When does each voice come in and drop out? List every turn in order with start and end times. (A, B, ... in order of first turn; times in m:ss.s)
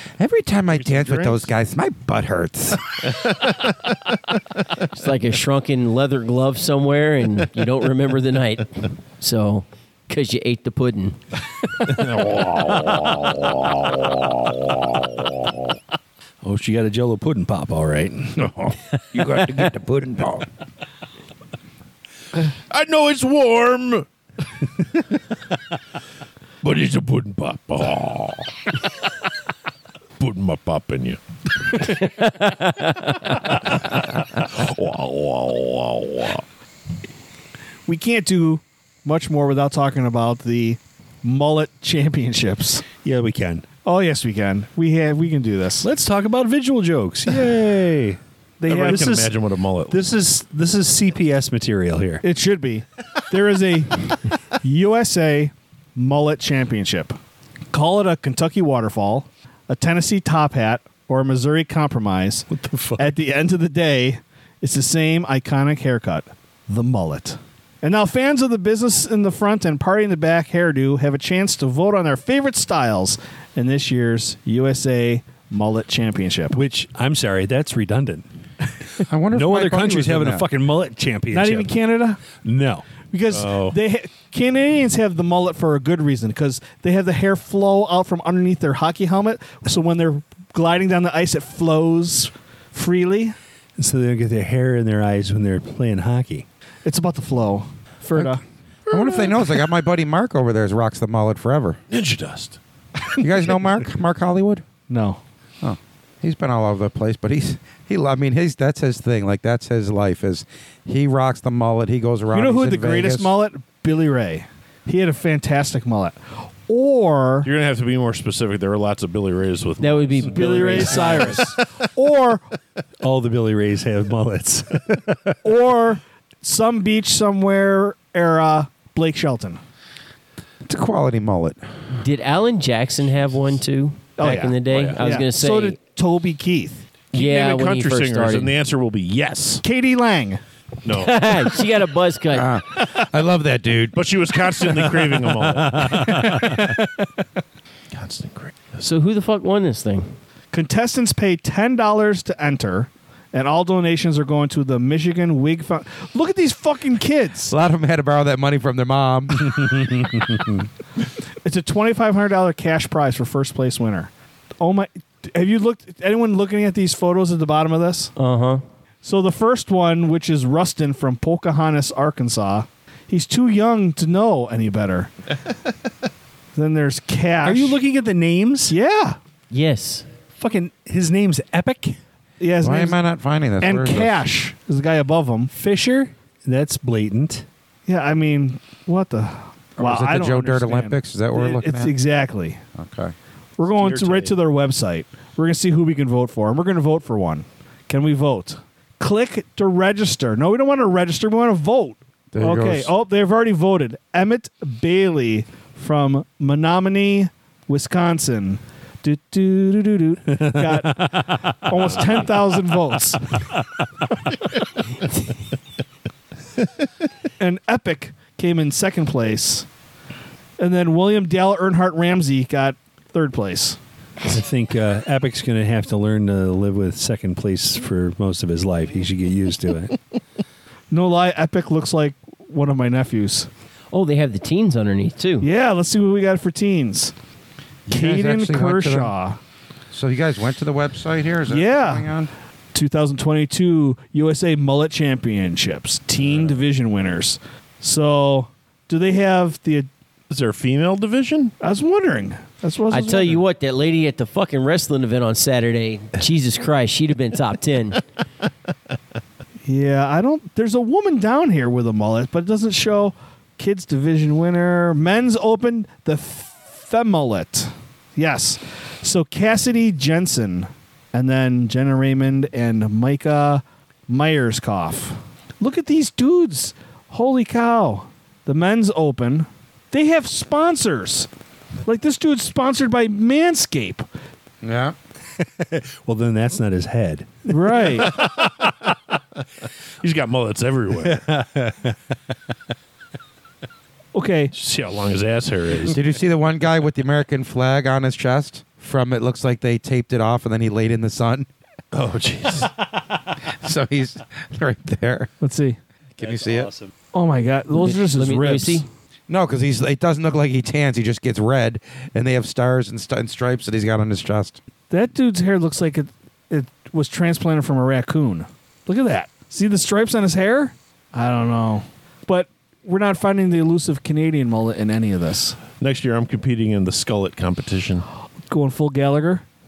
0:00.2-0:03.1 A
0:00.7-0:01.5 B
0:03.3-0:03.7 B
0:04.8-0:11.2 C
0:11.9-0:15.0 B
0:16.4-0:18.5 D
0:18.4-0:20.5 A
0:22.7-0:24.1 B
0:26.6-0:28.6 B
0:30.2-0:31.2 B
0:31.8-0:33.5 C
0:33.5-0:36.4 B
0:37.9-0:42.9 E
0:43.0-0:43.7 D
0:43.8-0:45.9 E
0:45.8-0:48.2 D
0:48.6-0:49.3 E
0:48.7-0:50.0 B
0:48.8-0:49.3 D
0:49.9-0:52.2 D
0:52.2-0:57.2 E
0:57.7-1:16.6 E
1:02.5-1:03.2 D
1:16.5-1:18.3 D
1:19.0-1:20.4 A
1:19.3-1:21.7 D
1:21.3-1:22.2 E
1:22.3-1:22.9 D
1:23.1-1:33.4 E
1:23.3-1:23.8 B
1:33.8-1:36.5 D
1:36.8-1:38.4 E
1:38.9-1:39.7 B
1:38.9-1:41.8 A
1:41.9-1:42.6 B
1:43.2-1:44.6 A
1:44.9-1:45.2 E
1:45.6-1:53.3 A
1:52.3-1:57.5 E
1:57.4-2:01.5 B
1:59.8-2:01.5 C
2:00.3-2:02.4 E
2:03.0-2:05.4 D
2:05.4-2:09.6 E
2:10.7-2:11.6 A
2:11.9-2:15.8 C
2:14.2-2:16.8 E
2:14.7-2:15.0 B
2:17.1-2:18.5 C
2:17.1-2:19.6 B
2:19.6-2:20.4 E
2:20.8-2:21.3 B
2:20.9-2:22.5 C
2:22.3-2:24.1 A
2:23.9-2:26.2 B
2:25.5-2:26.7 D
2:27.9-2:28.7 B
2:28.8-2:30.2 C
2:30.5-2:37.5 E
2:37.5-2:40.0 A
2:39.5-2:40.7 D
2:41.4-2:48.1 E
2:48.2-2:48.6 C
2:49.0-2:55.1 E
2:56.6-2:57.8 E
2:57.4-2:58.8 D
2:58.7-2:59.2 E
2:59.5-3:00.1 C
3:00.4-3:02.0 D
3:02.4-3:03.0 E
3:02.6-3:04.2 A
3:03.6-3:05.5 E
3:05.5-3:07.5 D
3:07.9-3:12.6 E
3:09.8-3:12.0 A
3:12.8-3:13.1 A
3:13.6-3:33.4 E
3:13.7-3:14.4 B
3:22.3-3:22.9 A
3:30.4-3:31.9 D
3:37.4-3:39.7 E
3:40.6-3:43.8 E
3:44.2-3:50.0 D
3:50.9-3:53.5 E
3:53.9-3:55.5 C
3:55.4-3:57.1 E
3:57.9-3:59.1 A
3:57.9-3:59.4 E
3:59.9-4:02.3 A
4:01.5-4:02.1 E
4:02.7-4:09.9 E
4:10.3-4:11.5 B
4:11.6-4:13.4 E
4:12.9-4:18.0 C
4:19.6-4:41.3 E
4:41.8-4:44.1 E
4:44.6-4:45.0 A
4:45.4-4:47.9 D
4:47.5-4:48.2 E
4:48.1-4:48.7 B
4:50.0-4:51.2 B
4:51.0-4:52.2 D
4:54.1-4:54.5 E
4:54.5-4:56.0 B
4:55.9-5:01.5 A
5:01.9-5:02.7 B
5:03.5-5:05.3 A
5:05.4-5:05.8 E
5:06.2-5:06.7 A
5:06.2-5:06.9 D
5:07.1-5:08.8 E
5:07.8-5:08.9 C
5:09.3-5:14.6 A
5:14.9-5:25.6 E
5:25.8-5:28.1 B
5:28.5-5:29.4 E